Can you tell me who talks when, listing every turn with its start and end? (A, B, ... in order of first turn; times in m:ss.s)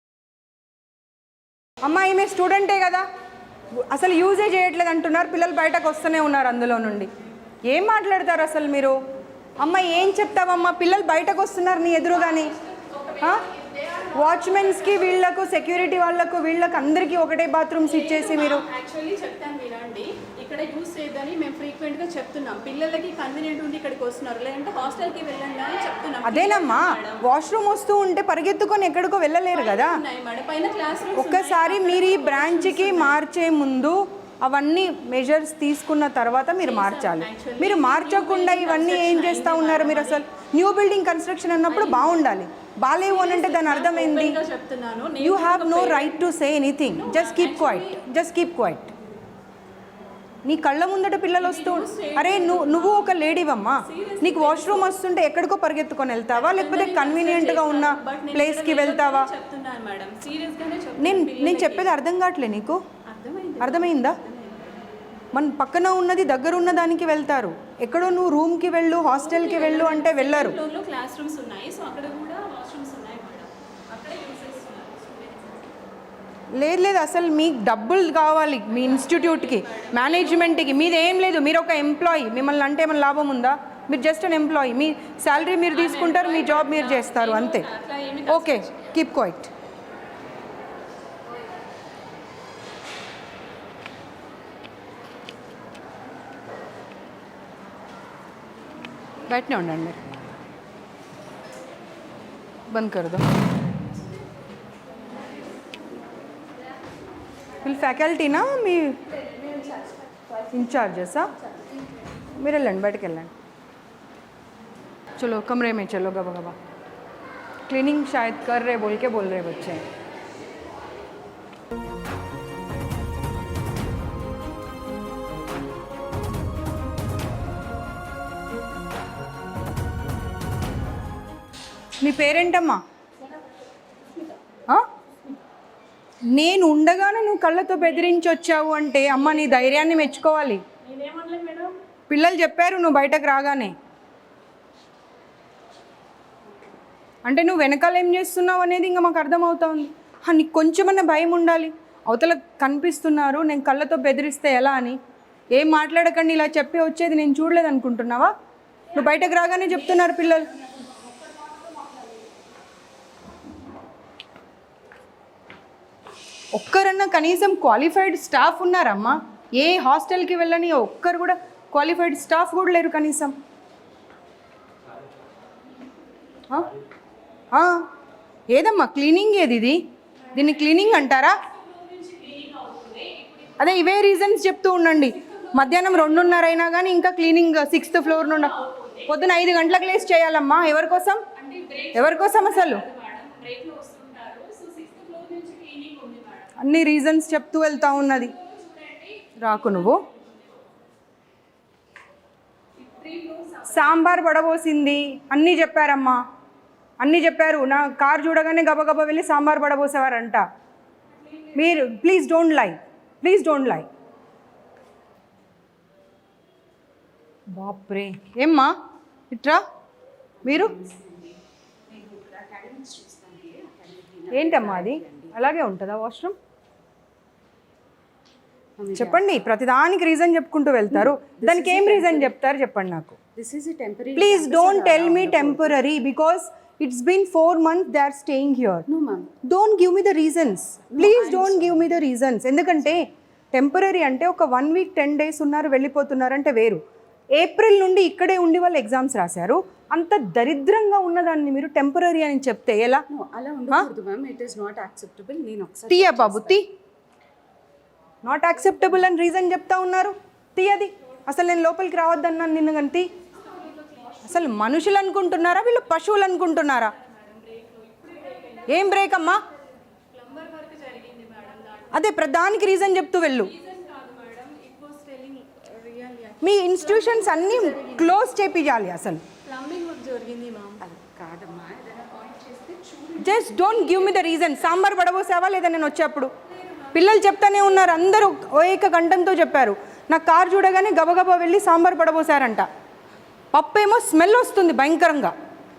0:01.8-0:03.0 A
0:03.9-0:07.1 A
0:07.7-0:09.0 A
0:09.6-0:12.5 A
0:12.0-0:15.2 B
0:14.2-0:18.6 A
0:17.8-0:27.2 B
0:26.3-0:30.0 A
0:29.5-0:33.2 B
0:31.2-0:44.4 A
0:36.6-0:40.2 B
0:41.7-0:42.2 B
0:43.0-0:46.2 B
0:45.2-0:48.9 A
0:46.9-0:48.0 B
0:50.4-0:59.3 A
0:51.4-0:53.2 B
0:53.8-0:54.9 B
0:56.3-1:01.9 B
1:01.0-1:02.8 A
1:03.1-1:04.8 B
1:03.6-1:04.2 A
1:05.3-1:10.6 A
1:09.1-1:15.7 B
1:16.5-1:27.6 A
1:18.7-1:20.6 B
1:25.7-1:28.7 B
1:28.3-1:29.5 A
1:39.3-1:40.2 A
1:42.7-1:43.2 A
1:47.6-1:49.0 A
1:50.5-1:51.3 A
1:52.4-1:53.3 A
1:55.2-1:56.5 A
1:57.7-1:59.8 A
2:12.0-2:12.8 A
2:16.3-2:20.6 A
2:20.8-2:21.7 B
2:22.1-2:23.7 A
2:27.2-2:35.0 A
2:35.5-2:38.3 A
2:38.9-2:40.5 A
2:46.5-2:53.3 A
2:58.5-2:59.8 A
3:00.3-3:01.3 A
3:01.8-3:03.5 B
3:03.6-3:08.5 A
3:08.2-3:09.1 B
3:09.1-3:11.2 A
3:11.4-3:16.5 B
3:11.9-3:12.8 A
3:16.6-3:18.3 A
3:17.9-3:20.0 B
3:19.4-3:20.0 A
3:22.8-3:24.1 B
3:23.7-3:26.2 A
3:27.0-3:30.4 A
3:31.5-3:33.9 A
3:37.6-3:38.7 A
3:39.3-3:39.6 A
3:40.4-3:41.4 C
3:40.4-3:40.7 A
3:41.9-3:45.4 C
3:44.3-3:46.3 A
3:48.8-3:49.3 C
3:48.9-3:53.2 A
3:50.9-3:52.3 C
3:53.3-3:55.8 C
3:54.2-3:58.8 A
3:58.9-3:59.3 C
3:59.5-4:06.8 A
4:00.9-4:01.8 C
4:07.4-4:13.0 A
4:13.1-4:16.6 C
4:15.9-4:16.6 A
4:18.2-4:23.1 A
4:24.2-4:26.9 A
4:27.2-4:29.0 B
4:28.7-4:29.4 A
4:30.1-4:32.1 B
4:31.9-4:33.5 A
4:33.4-4:38.2 B
4:36.4-4:39.2 A
4:39.4-4:40.8 B
4:40.8-4:43.9 C
4:43.2-4:46.3 A
4:43.9-4:44.3 B
4:46.9-4:52.7 A
4:53.5-4:55.3 A